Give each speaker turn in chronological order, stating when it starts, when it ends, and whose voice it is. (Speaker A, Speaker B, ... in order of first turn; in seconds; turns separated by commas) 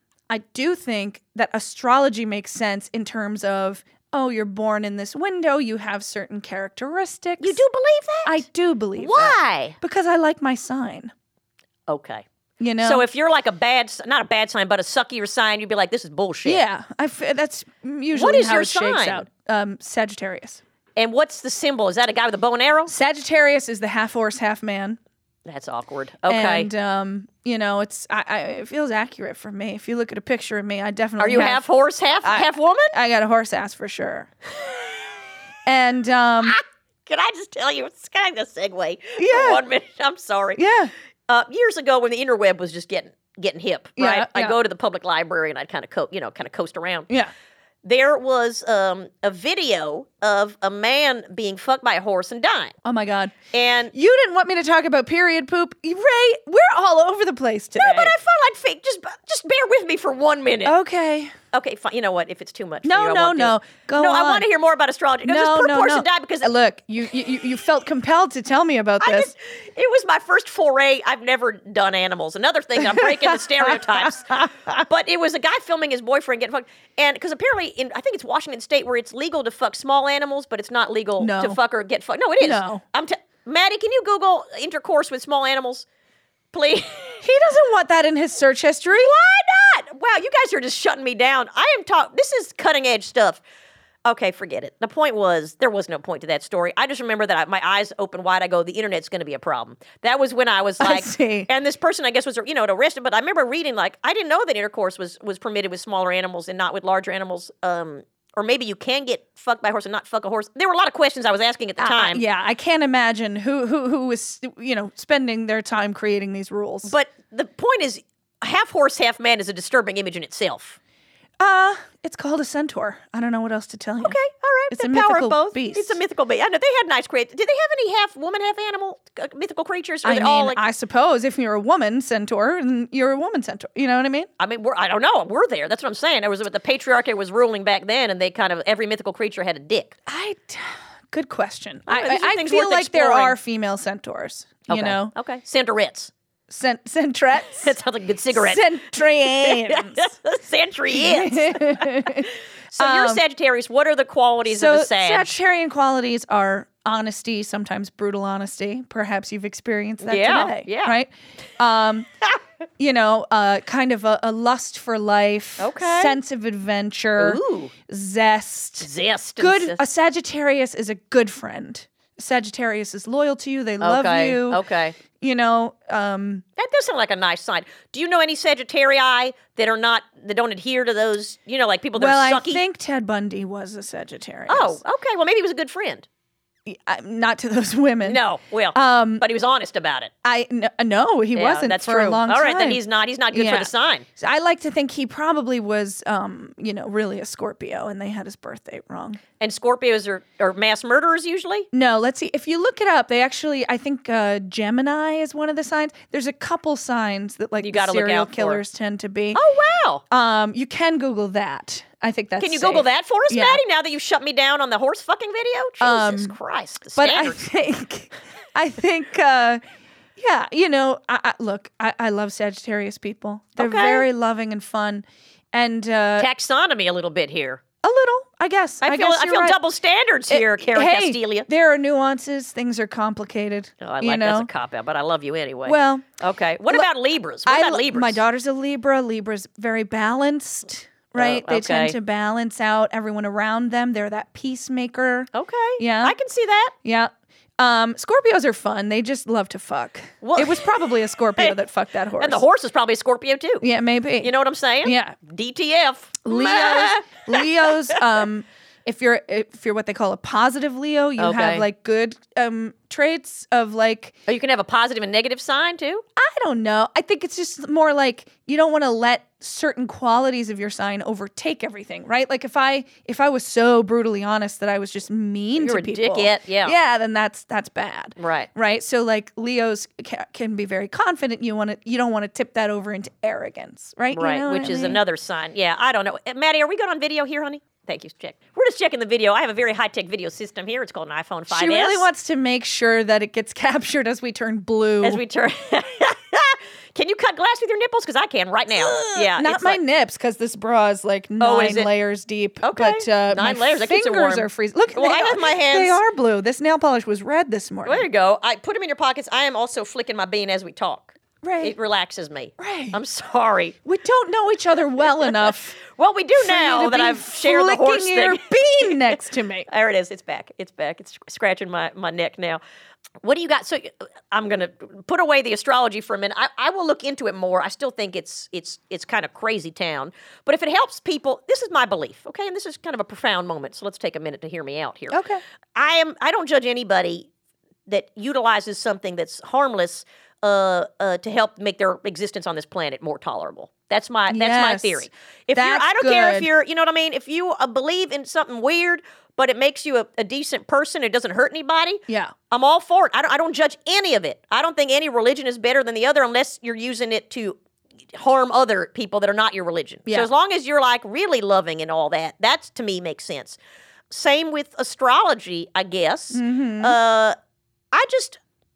Speaker A: 0.3-7.6, Speaker B: 7.4-8.4, Speaker A: 8.2-11.1, Speaker B: 9.0-9.8, Speaker B: 11.9-12.2, Speaker A: 12.6-13.1, Speaker B: 12.8-16.6, Speaker A: 16.4-20.6, Speaker B: 18.1-19.3, Speaker B: 21.0-22.9, Speaker A: 22.9-25.0, Speaker B: 25.5-26.7, Speaker A: 26.3-31.6, Speaker B: 31.2-33.0, Speaker A: 32.2-34.3, Speaker A: 35.7-36.6, Speaker B: 36.4-40.6, Speaker A: 39.2-39.6, Speaker A: 40.6-40.9, Speaker B: 41.3-47.1, Speaker A: 44.0-44.6, Speaker B: 47.8-52.8, Speaker A: 52.8-53.3, Speaker B: 53.5-53.9, Speaker A: 53.9-58.1, Speaker B: 57.8-60.8, Speaker A: 60.6-61.3, Speaker B: 61.5-66.5, Speaker A: 62.8-64.5, Speaker A: 65.2-69.3, Speaker B: 69.0-85.9, Speaker A: 72.8-74.8, Speaker A: 81.2-81.6, Speaker A: 82.4-82.8, Speaker B: 86.5-87.2, Speaker A: 87.2-89.1, Speaker B: 88.9-93.4, Speaker B: 94.0-112.2, Speaker A: 100.8-101.5, Speaker A: 111.8-116.9, Speaker B: 116.8-120.8, Speaker A: 121.4-124.2, Speaker B: 124.0-130.6, Speaker A: 124.7-126.0, Speaker A: 130.0-134.3, Speaker B: 134.4-140.0, Speaker A: 140.1-145.1, Speaker B: 141.9-143.4, Speaker B: 144.7-146.1, Speaker A: 146.5-147.8, Speaker B: 147.6-155.3, Speaker A: 148.3-150.1, Speaker A: 150.9-153.2, Speaker A: 154.5-162.1, Speaker B: 160.0-161.0, Speaker A: 162.8-176.4, Speaker B: 165.6-166.2, Speaker B: 167.2-167.7, Speaker B: 168.8-169.8, Speaker B: 173.8-175.0, Speaker B: 176.6-182.6, Speaker A: 182.0-184.8, Speaker B: 184.5-186.1, Speaker A: 186.7-188.2, Speaker B: 188.0-190.1, Speaker A: 188.7-189.2, Speaker A: 190.2-199.2, Speaker B: 191.3-194.1, Speaker B: 199.4-201.7, Speaker A: 201.7-209.4, Speaker B: 207.6-208.6, Speaker B: 209.3-210.0, Speaker A: 210.1-213.6, Speaker B: 212.4-217.4, Speaker A: 215.8-216.4, Speaker A: 217.0-219.6, Speaker A: 220.2-226.3, Speaker B: 223.6-224.1, Speaker B: 226.2-227.6, Speaker A: 227.8-229.6, Speaker B: 228.8-231.5, Speaker A: 230.3-234.5, Speaker B: 233.8-238.2, Speaker A: 235.7-236.1, Speaker A: 237.5-246.2, Speaker B: 241.2-242.0, Speaker B: 245.3-246.7, Speaker A: 246.8-252.4, Speaker B: 250.2-250.8, Speaker B: 252.2-253.7, Speaker A: 253.6-254.3, Speaker B: 254.2-257.7, Speaker A: 254.8-255.2, Speaker A: 256.2-264.2, Speaker B: 261.2-261.7, Speaker B: 264.3-266.0, Speaker A: 266.2-285.0, Speaker B: 275.6-276.8, Speaker B: 278.2-278.5, Speaker B: 284.1-292.1, Speaker A: 291.5-295.2, Speaker B: 295.0-299.8, Speaker A: 298.7-308.1, Speaker B: 301.4-301.9, Speaker B: 302.6-306.0, Speaker B: 307.9-313.8, Speaker A: 311.4-311.8, Speaker A: 312.6-313.0, Speaker A: 313.8-315.8, Speaker B: 315.8-319.2, Speaker A: 316.4-319.7, Speaker B: 319.7-322.6, Speaker B: 323.2-335.2, Speaker A: 335.1-335.4, Speaker B: 335.8-337.3, Speaker B: 337.9-357.6, Speaker A: 344.3-346.5, Speaker A: 352.1-352.3, Speaker B: 358.1-363.6, Speaker B: 364.1-367.4, Speaker A: 366.3-367.0, Speaker B: 367.9-368.4